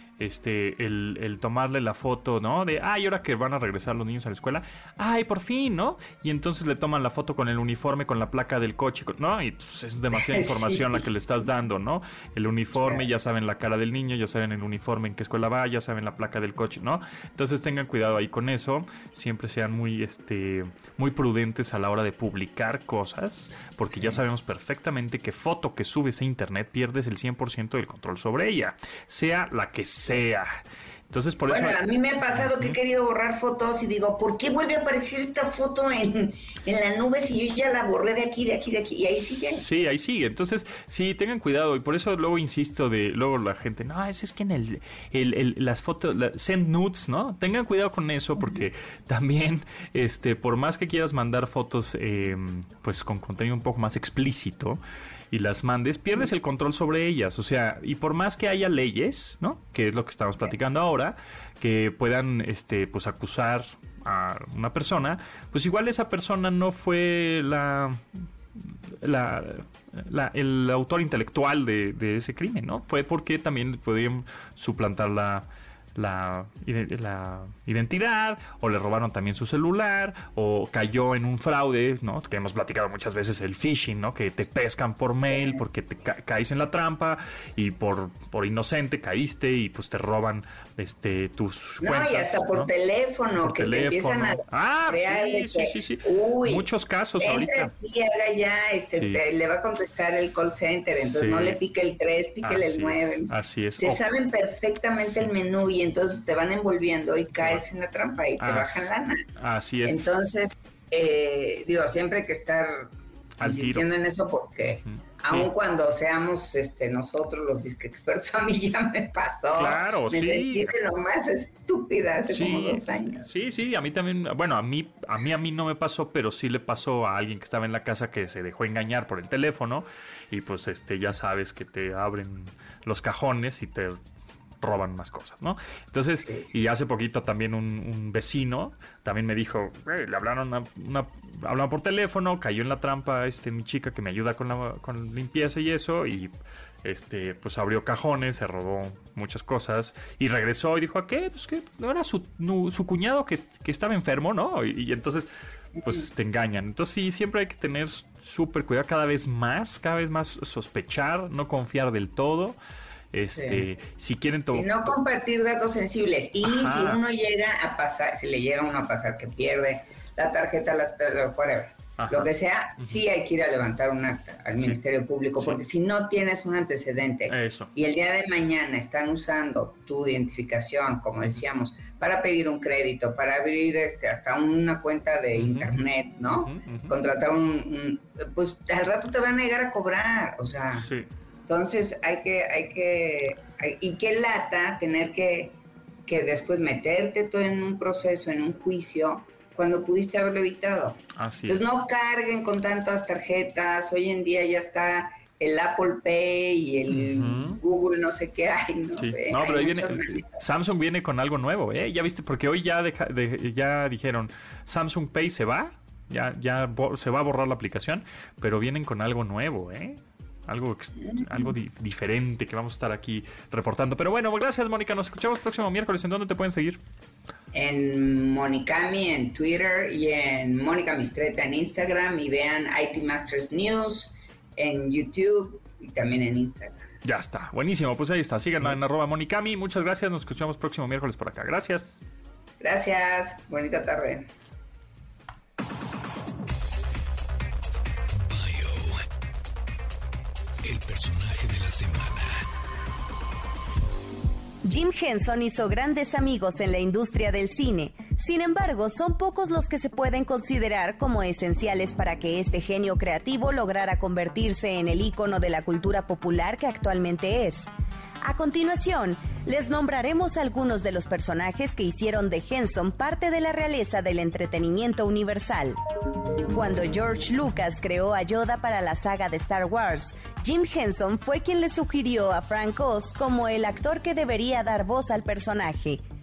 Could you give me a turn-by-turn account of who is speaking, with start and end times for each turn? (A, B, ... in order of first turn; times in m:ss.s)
0:00.2-0:30.6 A
0:10.1-0:11.1 B
0:31.1-0:32.8 A
0:31.5-0:39.6 B
0:39.4-0:54.8 A
0:55.3-1:32.7 A
1:25.3-1:25.6 B
1:31.8-1:49.2 B
1:33.4-1:37.7 A
1:39.0-1:39.2 A
1:41.0-1:41.6 A
1:42.4-1:44.0 A
1:45.0-1:45.3 A
1:48.4-1:50.0 A
1:49.8-2:03.2 B
1:53.4-1:53.9 A
1:54.9-1:55.5 A
1:59.6-2:00.8 A
2:02.3-2:14.0 A
2:14.6-2:35.3 A
2:16.2-2:16.5 B
2:35.8-2:36.1 B
2:35.8-2:42.6 A
2:43.1-2:45.0 A
2:43.3-2:43.6 B
2:44.5-3:10.9 B
2:46.4-2:47.0 A
2:52.0-2:53.0 A
2:57.3-2:57.7 A
3:05.4-3:05.8 A
3:06.4-3:07.0 A
3:10.8-3:11.1 A
3:11.5-3:30.3 B
3:21.2-3:21.6 A
3:26.9-3:27.6 A
3:29.0-3:46.8 A
3:41.0-3:41.5 B
3:47.5-3:56.9 B
3:57.0-4:02.0 A
4:02.6-4:04.3 B
4:08.1-4:09.1 C
4:10.6-4:12.5 C
4:14.6-4:27.7 D
4:28.2-4:35.8 D
4:36.5-4:46.0 D